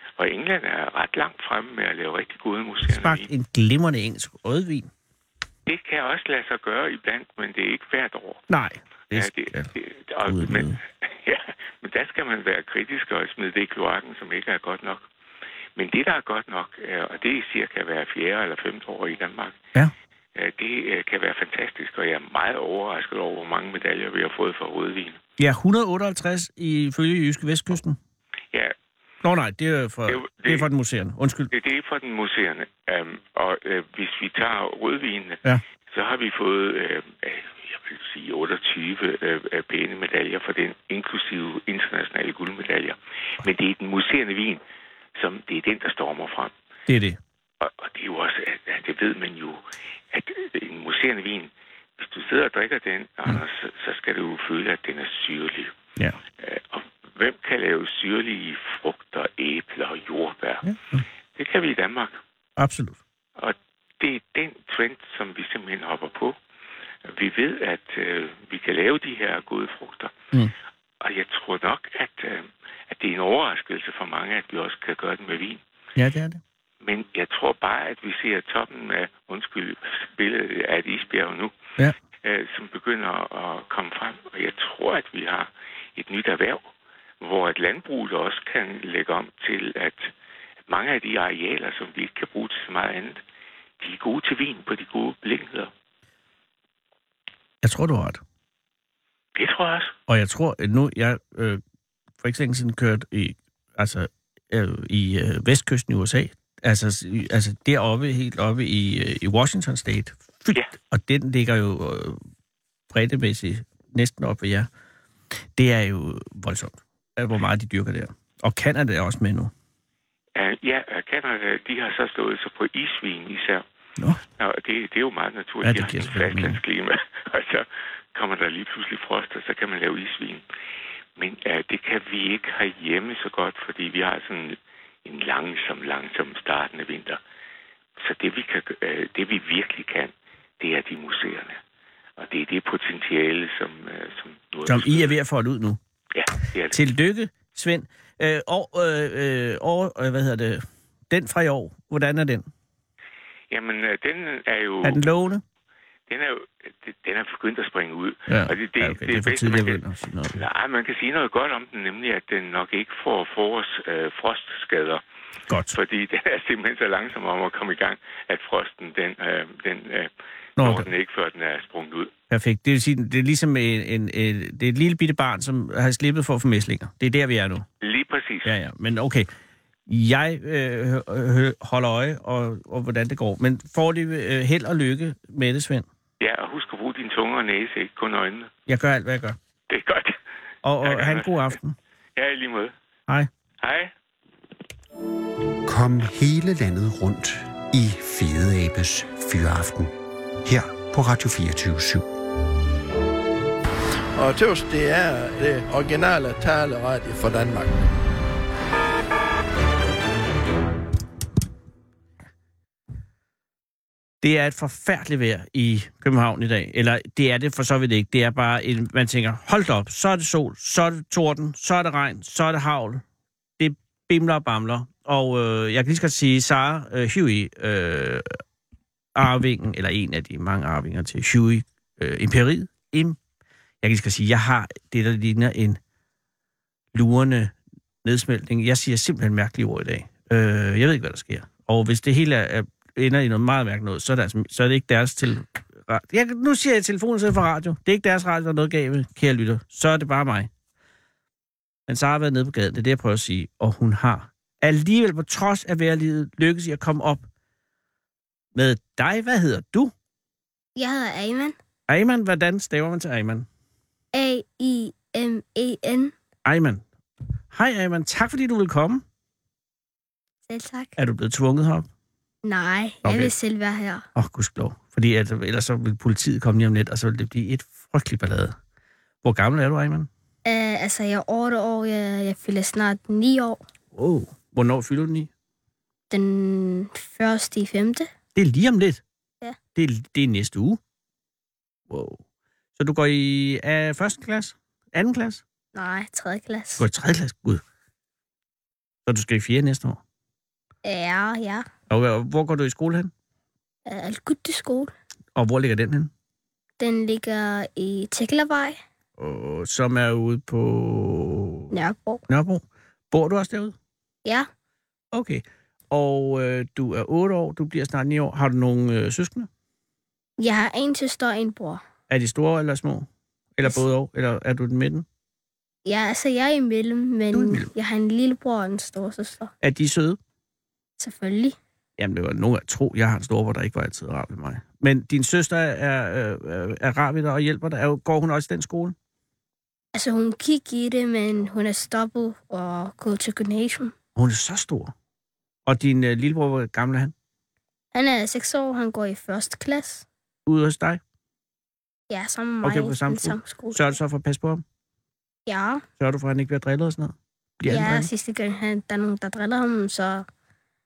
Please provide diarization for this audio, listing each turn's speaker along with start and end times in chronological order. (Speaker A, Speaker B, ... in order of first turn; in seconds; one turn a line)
Speaker A: 0.2-3.3
Speaker B: 2.9-4.9
Speaker A: 5.7-8.4
Speaker B: 8.5-9.7
Speaker A: 9.1-15.0
Speaker B: 10.2-10.8
Speaker A: 15.8-19.6
Speaker A: 20.3-25.2
Speaker B: 25.4-28.0
Speaker B: 29.2-31.5
Speaker A: 30.1-30.7
Speaker A: 31.5-44.6
Speaker A: 45.1-46.5
Speaker B: 46.9-47.2
Speaker A: 47.6-49.6
Speaker A: 50.1-55.7
Speaker A: 56.4-60.6
Speaker B: 60.6-61.0
Speaker A: 61.4-62.2
Speaker B: 62.6-63.0
Speaker A: 63.4-66.3
Speaker A: 67.0-70.1
Speaker A: 71.0-75.6
Speaker B: 76.0-76.4
Speaker A: 76.8-81.5
Speaker A: 82.2-86.7
Speaker A: 87.2-90.1
Speaker A: 90.7-93.2
Speaker A: 93.8-95.7
Speaker B: 97.6-98.2
Speaker A: 99.3-99.9
Speaker B: 100.1-101.6
Speaker B: 102.2-112.2
Speaker B: 112.9-114.7
Speaker B: 115.5-119.5
Speaker A: 120.3-123.6
Speaker A: 124.4-130.4
Speaker B: 125.6-126.6
Speaker A: 131.2-137.2
Speaker A: 138.0-141.6
Speaker A: 142.2-145.1
Speaker B: 144.7-145.8
Speaker A: 146.1-146.8
Speaker B: 146.7-152.5
Speaker A: 153.5-155.0
Speaker B: 154.8-155.4
Speaker A: 156.1-159.8
Speaker B: 158.3-160.4
Speaker A: 160.3-165.0
Speaker B: 165.5-165.8
Speaker A: 165.7-172.1
Speaker B: 170.6-170.9
Speaker B: 172.3-177.7
Speaker A: 177.8-178.5
Speaker B: 178.4-179.3
Speaker B: 179.9-185.9
Speaker A: 186.2-188.5
Speaker B: 188.7-189.4
Speaker A: 189.7-190.2
Speaker B: 190.6-191.8
Speaker A: 190.8-191.5
Speaker A: 192.2-192.7
Speaker A: 193.6-193.9
Speaker C: 195.6-202.1
Speaker D: 204.1-207.9
Speaker B: 214.2-223.0
Speaker B: 223.6-228.4
Speaker B: 229.1-233.2
Speaker B: 233.8-235.8
Speaker B: 236.9-250.5
Speaker B: 251.9-257.2
Speaker B: 258.5-259.9
Speaker E: 260.8-261.5
Speaker B: 261.9-263.5
Speaker E: 264.1-266.1
Speaker B: 266.4-266.8
Speaker B: 267.5-269.0
Speaker E: 270.5-270.9
Speaker B: 271.0-271.9
Speaker E: 272.4-274.1
Speaker B: 273.0-273.3
Speaker B: 274.1-278.6
Speaker B: 279.2-280.1
Speaker E: 280.4-283.6
Speaker B: 283.9-285.3
Speaker E: 286.1-288.1
Speaker B: 288.3-289.0
Speaker B: 289.7-290.8
Speaker B: 291.9-292.2
Speaker B: 292.8-295.4
Speaker E: 295.7-296.9
Speaker B: 296.8-297.6
Speaker B: 299.1-300.0
Speaker E: 300.8-301.6
Speaker B: 301.9-303.1
Speaker E: 303.9-304.9
Speaker B: 305.3-306.1
Speaker E: 306.8-308.8
Speaker B: 309.2-311.7
Speaker E: 311.7-312.2
Speaker B: 312.3-313.8
Speaker B: 315.1-319.5
Speaker E: 320.4-321.8
Speaker B: 322.1-325.1
Speaker E: 325.8-329.5
Speaker B: 327.3-327.7
Speaker B: 329.6-330.2
Speaker E: 331.0-331.6
Speaker B: 332.0-338.9
Speaker E: 339.9-343.9
Speaker B: 344.1-344.9
Speaker B: 345.6-347.1
Speaker E: 347.9-350.1
Speaker B: 350.4-351.0
Speaker E: 352.1-353.9
Speaker B: 352.6-354.6
Speaker E: 355.5-355.8
Speaker B: 356.0-358.1
Speaker E: 357.7-360.2